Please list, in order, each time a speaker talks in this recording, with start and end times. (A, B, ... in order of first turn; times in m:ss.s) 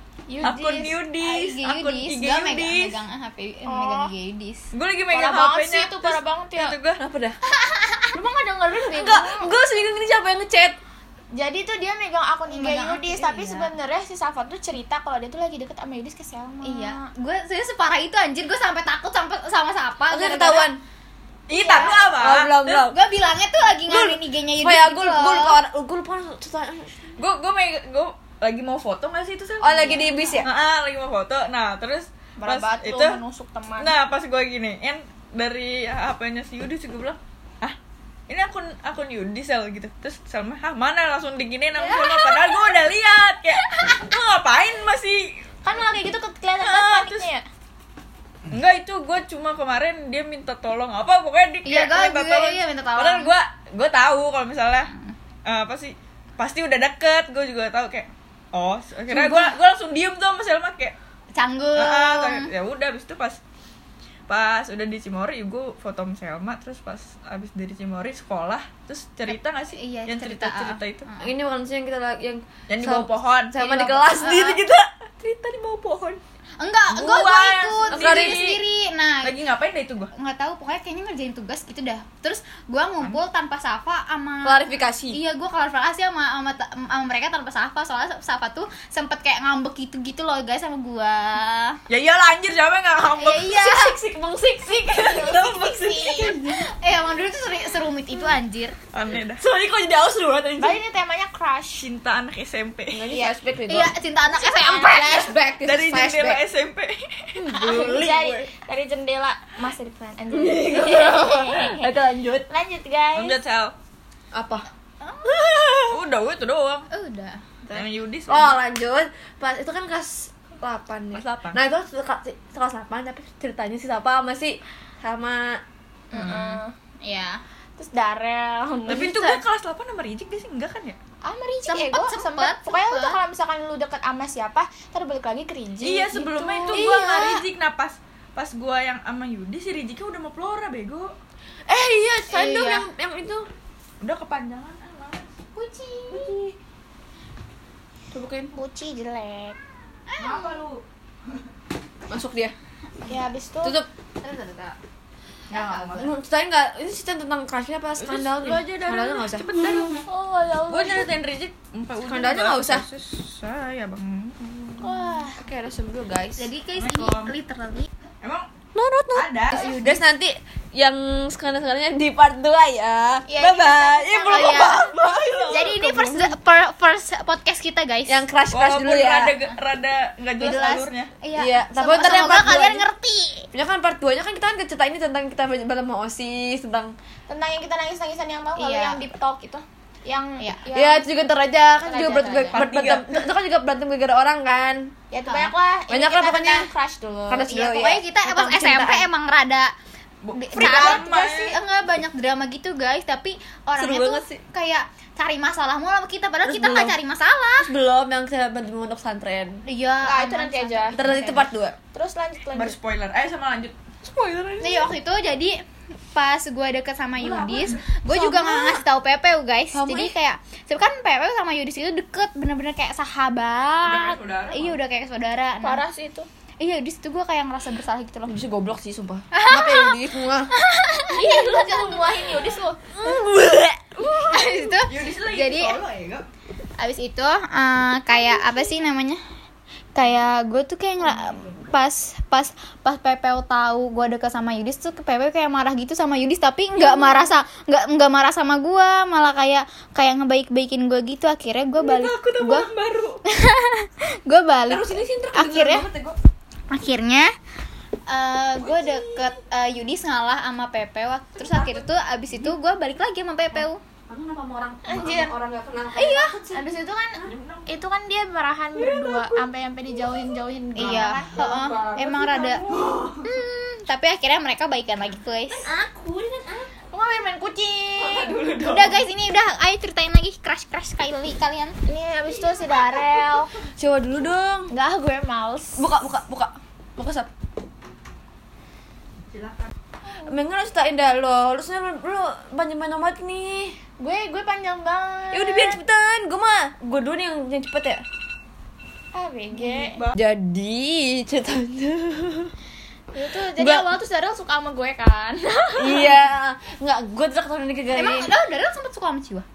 0:00.3-0:01.0 A
0:00.4-0:03.0 B
0:01.2-0:04.7 C
0:03.7-0:04.1 A
0:04.7-0:07.0 B
0:05.1-0:06.8 A
0:07.0-0:07.4 D
0:07.6-0:08.1 C
0:08.1-0:09.5 A
0:08.7-0:10.8 D
0:11.3-0:17.0 A
0:12.5-0:13.7 C
0:16.6-0:20.8 C
0:20.1-0:20.8 D
0:21.5-0:22.9 B
0:21.5-0:22.1 A
0:22.0-0:23.0 D
0:22.7-0:25.6 C
0:23.9-0:27.1 D
0:27.2-0:33.2 B
0:29.6-0:30.5 D
0:32.4-0:33.9 A
0:33.8-0:37.8 B
0:38.3-0:45.3 B
0:41.8-0:42.7 A
0:45.6-0:47.4 A
0:46.6-0:47.3 B
0:48.5-0:54.9 B
0:51.7-0:53.3 C
0:55.4-1:01.0 B
1:01.3-1:02.5 C
1:01.7-1:03.4 B
1:04.3-1:11.0 B
1:09.7-1:11.3 C
1:11.2-1:16.2 D
1:12.7-1:13.9 B
1:14.1-1:14.6 C
1:16.6-1:19.3 C
1:16.9-1:18.6 B
1:17.9-1:18.5 D
1:19.2-1:20.1 B
1:20.1-1:31.8 C
1:24.4-1:25.2 D
1:31.9-1:33.7 B
1:33.2-1:33.9 C
1:33.5-1:36.6 D
1:34.9-1:36.4 B
1:35.1-1:36.4 A
1:36.4-1:38.8 C
1:38.9-1:39.4 B
1:39.4-1:40.8 D
1:40.6-1:41.9 A
1:41.7-1:43.2 B
1:42.9-1:46.4 D
1:43.7-1:45.2 C
1:44.4-1:45.3 A
1:45.6-1:48.5 B
1:47.4-1:47.9 D
1:47.5-1:52.0 A
1:50.3-1:52.5 D
1:52.5-1:53.4 A
1:53.2-1:53.8 B
1:54.3-1:54.7 D
1:55.0-1:55.3 C
1:55.2-1:56.0 D
1:55.9-1:56.9 B
1:56.9-1:57.6 C
1:57.7-1:58.6 B
1:58.3-2:05.6 D
2:01.1-2:01.6 B
2:06.1-2:06.7 A
2:06.2-2:06.6 B
2:07.0-2:07.4 C
2:07.8-2:09.4 A
2:08.9-2:11.0 B
2:11.2-2:17.4 A
2:11.7-2:13.2 C
2:15.8-2:21.1 B
2:16.7-2:17.4 C
2:21.7-2:23.5 D
2:22.3-2:22.9 C
2:24.0-2:25.3 B
2:25.6-2:26.2 A
2:25.6-2:26.3 C
2:26.1-2:26.6 D
2:28.1-2:28.5 D
2:28.5-2:29.6 A
2:30.1-2:30.6 C
2:30.2-2:30.8 B
2:32.1-2:32.6 D
2:33.1-2:33.8 A
2:33.6-2:33.9 D
2:35.5-2:36.2 B
2:35.5-2:35.9 C
2:36.0-2:39.9 D
2:38.0-2:40.1 B
2:40.1-2:41.1 A
2:40.7-2:44.9 B
2:42.0-2:42.8 D
2:44.8-2:45.4 A
2:44.9-2:46.5 D
2:46.4-2:47.9 C
2:46.8-2:47.4 B
2:48.2-2:48.5 B
2:48.7-2:56.3 D
2:49.1-2:49.6 B
2:49.5-2:50.0 C
2:53.3-2:54.8 A
2:54.3-2:54.8 C
2:54.5-2:55.8 B
2:55.5-2:58.2 C
2:58.1-2:59.4 D
2:58.5-3:01.1 B
3:00.4-3:03.5 C
3:01.3-3:02.9 D
3:03.5-3:07.0 D
3:07.3-3:11.0 A
3:08.6-3:09.1 C
3:10.7-3:16.7 D
3:11.8-3:12.6 A
3:12.5-3:13.2 B
3:15.1-3:17.5 A
3:17.3-3:19.1 D
3:17.5-3:19.7 C
3:20.2-3:21.6 B
3:20.3-3:27.7 C
3:20.6-3:21.0 D
3:20.7-3:21.0 A
3:23.8-3:24.4 D
3:26.4-3:27.0 D
3:27.6-3:29.6 D
3:29.6-3:31.5 C
3:30.0-3:31.0 A
3:30.9-3:31.8 D
3:31.9-3:32.8 A
3:32.5-3:33.8 B
3:34.0-3:34.9 D
3:34.6-3:35.6 C
3:36.1-3:45.8 C
3:37.3-3:38.8 D
3:37.3-3:37.7 B
3:39.7-3:40.1 D
3:43.8-3:44.8 B
3:45.6-3:46.3 A
3:46.6-3:48.4 C
3:48.3-3:50.5 D
3:49.3-3:50.0 C
3:50.5-3:52.2 C
3:51.1-3:52.8 A
3:53.0-3:54.7 D
3:54.2-3:55.8 C
3:54.9-3:56.3 B
3:56.8-3:59.2 C
4:00.0-4:12.7 C
4:06.8-4:07.3 D
4:11.8-4:13.2 B
4:13.3-4:15.9 C
4:14.7-4:16.2 D
4:16.7-4:17.3 C
4:18.1-4:23.8 C
4:21.4-4:21.8 D
4:23.6-4:26.7 D
4:24.9-4:25.4 A
4:26.0-4:26.3 C
4:26.5-4:31.4 A
4:27.2-4:27.6 D
4:27.3-4:27.6 B
4:28.8-4:29.3 B
4:30.8-4:32.6 C
4:30.8-4:33.1 D
4:32.7-4:33.2 B
4:33.2-4:35.6 C
4:35.6-4:36.7 D
4:36.9-4:38.4 A
4:38.1-4:39.0 B
4:38.3-4:38.9 D
4:38.6-4:41.8 C
4:41.9-4:43.6 A
4:43.8-4:44.7 D
4:44.7-4:45.8 A
4:45.8-4:47.3 D
4:49.3-4:49.7 B
4:50.0-4:50.4 A
4:50.3-4:53.8 D
4:54.0-4:55.8 A
4:55.3-4:58.0 D
4:59.1-5:00.0 A
4:59.6-5:02.5 D
4:59.8-5:00.1 B
5:03.1-5:06.1 A
5:03.6-5:03.9 D
5:05.8-5:08.3 D
5:07.9-5:09.4 C